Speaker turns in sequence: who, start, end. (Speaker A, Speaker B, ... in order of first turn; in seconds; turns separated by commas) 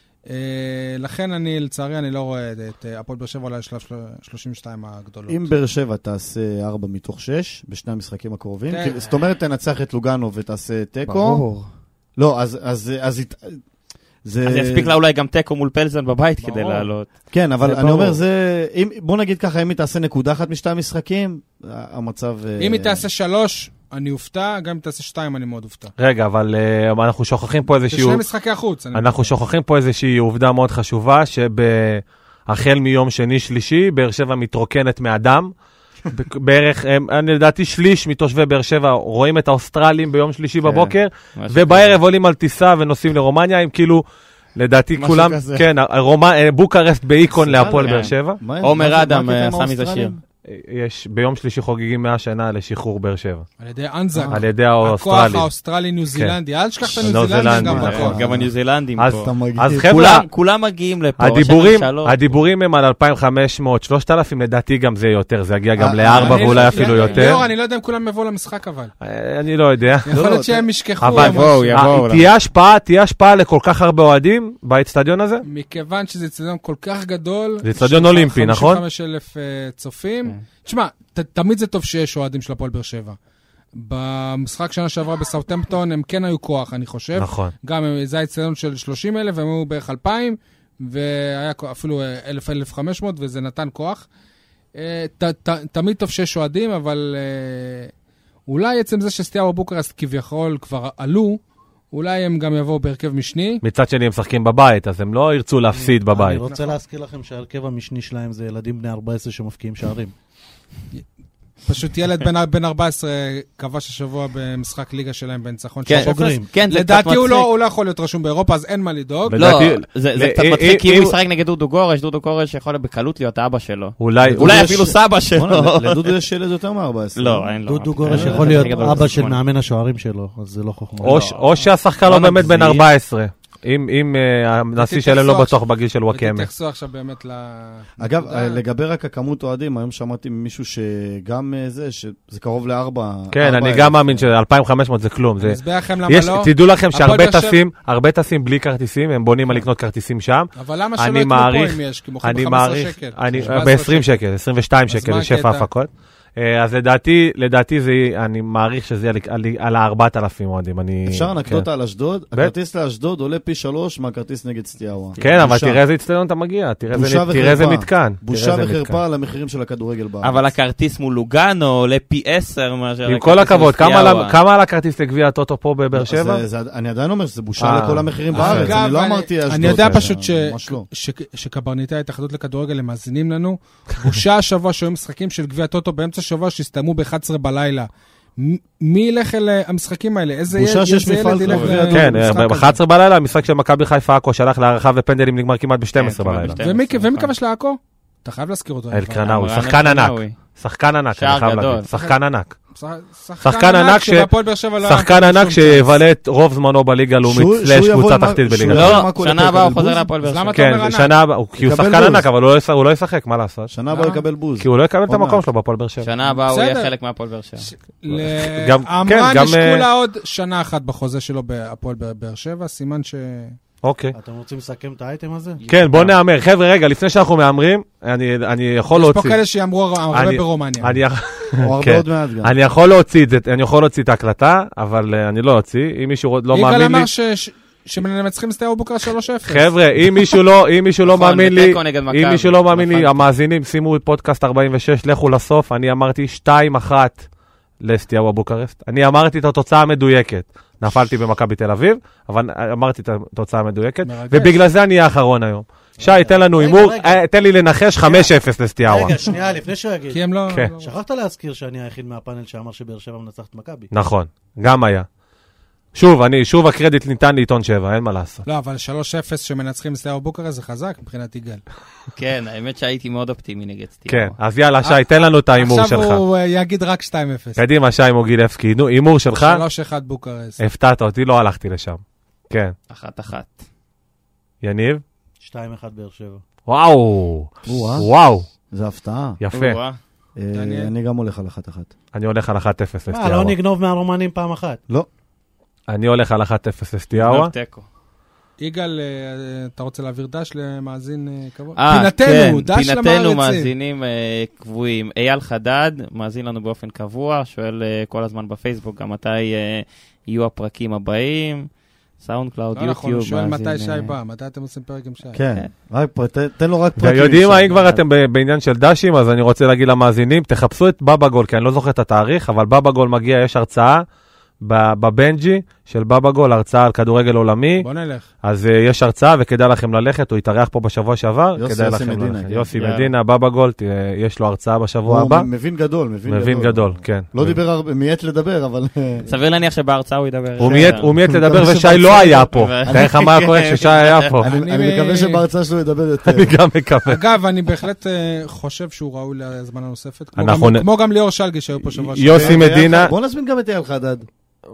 Speaker A: 0.3-5.5, Speaker B: 5.3-11.4, Speaker A: 8.7-9.1, Speaker C: 11.1-11.7, Speaker B: 12.2-13.6, Speaker B: 14.2-15.0, Speaker C: 14.4-17.1, Speaker A: 16.4-16.9, Speaker B: 17.3-23.0, Speaker C: 17.6-18.2, Speaker A: 22.6-25.9, Speaker D: 26.0-28.2, Speaker A: 27.9-29.3, Speaker D: 28.9-35.5, Speaker D: 36.1-44.0, Speaker C: 40.6-42.0, Speaker D: 44.6-48.4, Speaker B: 45.0-45.6, Speaker C: 45.0-45.6, Speaker B: 47.4-50.2, Speaker C: 47.5-50.1, Speaker D: 50.5-53.5, Speaker A: 53.6-58.2, Speaker B: 54.1-54.4, Speaker D: 54.3-55.5, Speaker D: 56.9-58.1, Speaker B: 57.5-58.5, Speaker C: 57.8-59.3, Speaker D: 59.0-60.3, Speaker B: 59.2-59.9, Speaker C: 59.9-62.4, Speaker D: 61.2-67.4, Speaker B: 65.8-67.1, Speaker A: 66.1-68.9, Speaker D: 69.0-70.1, Speaker A: 70.1-71.8, Speaker B: 70.1-70.7, Speaker D: 71.0-75.4, Speaker C: 71.1-72.3, Speaker A: 75.4-83.2, Speaker D: 77.6-78.8, Speaker A: 83.8-94.1, Speaker D: 87.2-87.5, Speaker A: 94.8-97.9, Speaker A: 98.5-101.4, Speaker A: 101.9-103.6, Speaker D: 103.6-106.4, Speaker E: 105.7-110.1, Speaker A: 106.4-106.8, Speaker A: 111.6-119.4, Speaker C: 115.9-117.5, Speaker E: 116.0-116.5, Speaker D: 119.3-121.1, Speaker C: 119.4-126.1, Speaker D: 124.0-124.7, Speaker B: 124.2-127.5, Speaker C: 127.2-129.4, Speaker E: 127.7-131.3, Speaker B: 128.0-129.1, Speaker C: 131.0-131.5, Speaker D: 131.0-136.5, Speaker C: 132.1-132.9, Speaker A: 134.8-135.6, Speaker A: 136.1-138.6, Speaker B: 138.0-144.3, Speaker D: 143.3-161.7, Speaker A: 145.4-147.6, Speaker A: 150.6-154.1, Speaker A: 154.9-155.7, Speaker B: 161.1-165.8, Speaker C: 165.2-165.5, Speaker D: 165.2-169.0, Speaker B: 166.9-170.4, Speaker C: 170.2-174.4, Speaker D: 173.1-176.4, Speaker B: 175.9-180.9, Speaker D: 177.6-178.7, Speaker A: 178.3-192.8, Speaker B: 190.5-192.4, Speaker C: 191.4-191.8, Speaker D: 191.9-196.6, Speaker C: 196.0-197.3, Speaker A: 196.6-199.3, Speaker D: 198.9-202.6, Speaker C: 199.2-200.4, Speaker C: 201.2-201.9, Speaker A: 201.9-202.2, Speaker A: 202.7-206.0, Speaker D: 203.4-204.3, Speaker D: 204.8-209.0, Speaker B: 207.2-210.1, Speaker C: 208.7-210.7, Speaker A: 210.2-211.1, Speaker D: 210.5-213.7, Speaker B: 211.6-212.3, Speaker B: 213.7-215.4, Speaker A: 213.9-214.2, Speaker D: 214.6-216.1, Speaker C: 216.0-217.7, Speaker A: 216.5-216.9, Speaker A: 217.6-223.6, Speaker D: 218.1-219.9, Speaker D: 223.8-224.2, Speaker E: 224.2-225.6, Speaker C: 225.6-226.2, Speaker D: 225.7-229.4, Speaker A: 228.9-231.0, Speaker D: 230.1-237.1, Speaker B: 231.6-232.5, Speaker A: 236.5-240.1, Speaker D: 239.5-247.3, Speaker C: 241.0-243.2, Speaker D: 247.8-259.2, Speaker A: 254.0-254.6, Speaker E: 256.0-257.2, Speaker E: 258.0-258.3, Speaker E: 258.8-260.2, Speaker A: 260.1-260.9, Speaker E: 260.8-263.9, Speaker D: 263.9-265.1, Speaker D: 265.9-268.4, Speaker A: 268.5-271.6, Speaker C: 272.1-274.4, Speaker D: 274.1-276.2, Speaker A: 274.8-277.6, Speaker D: 277.6-279.6, Speaker A: 279.3-280.6, Speaker D: 280.6-282.7, Speaker C: 282.9-283.6, Speaker D: 284.6-285.0, Speaker E: 285.4-286.4, Speaker D: 286.7-288.5, Speaker B: 287.7-288.1, Speaker B: 288.7-289.4, Speaker D: 289.4-289.8, Speaker C: 289.5-290.0, Speaker B: 290.4-291.9, Speaker A: 290.5-290.9, Speaker D: 292.1-293.6, Speaker E: 293.1-294.8, Speaker D: 295.9-297.5, Speaker C: 297.1-297.9, Speaker A: 298.6-303.7, Speaker C: 301.8-311.7, Speaker C: 312.2-314.1, Speaker A: 312.8-315.4, Speaker B: 315.3-318.0, Speaker D: 317.0-324.0, Speaker D: 324.6-327.9, Speaker A: 327.8-328.3, Speaker D: 328.4-335.5, Speaker B: 331.6-332.7, Speaker C: 332.8-333.1, Speaker B: 335.1-339.3, Speaker D: 336.3-337.6, Speaker C: 339.2-341.1, Speaker B: 340.6-343.1, Speaker D: 340.6-344.5, Speaker C: 342.3-344.4, Speaker B: 344.4-346.6, Speaker A: 344.5-345.4, Speaker D: 346.3-347.2, Speaker A: 347.1-353.1, Speaker D: 350.4-350.9, Speaker B: 352.1-354.3, Speaker D: 352.1-353.1